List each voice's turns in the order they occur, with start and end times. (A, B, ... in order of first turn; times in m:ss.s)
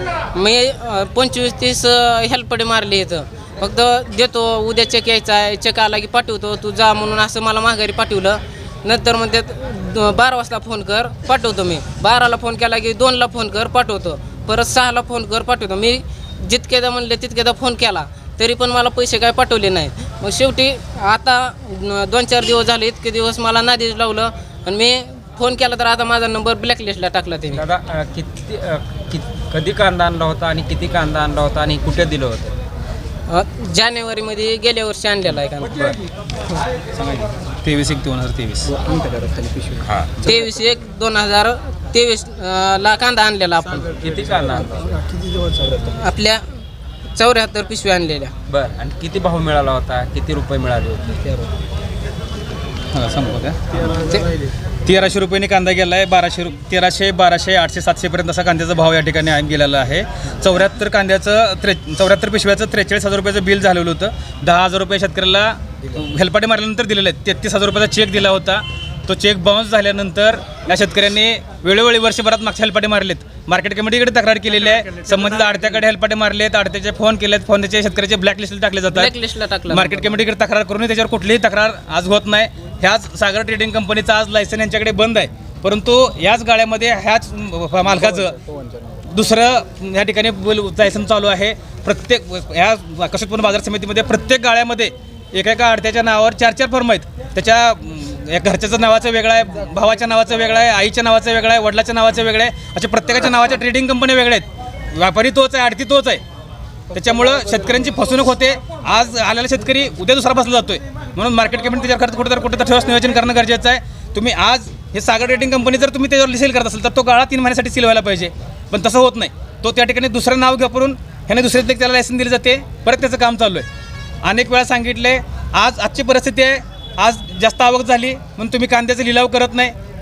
0:00.3-0:27.7 A
0:27.5-0:32.5 B
0:33.3-0:35.9 A
0:36.9-0:38.7 C
0:40.2-0:43.9 A
0:44.0-0:44.9 B
0:45.9-0:46.4 A
0:47.2-0:48.3 A
0:48.5-0:51.5 B
0:52.9-0:53.6 C
0:54.8-1:19.1 C
1:18.9-1:20.0 A
1:19.7-1:28.4 C
1:29.1-1:46.2 C
1:46.9-2:03.7 C
2:04.2-2:09.7 C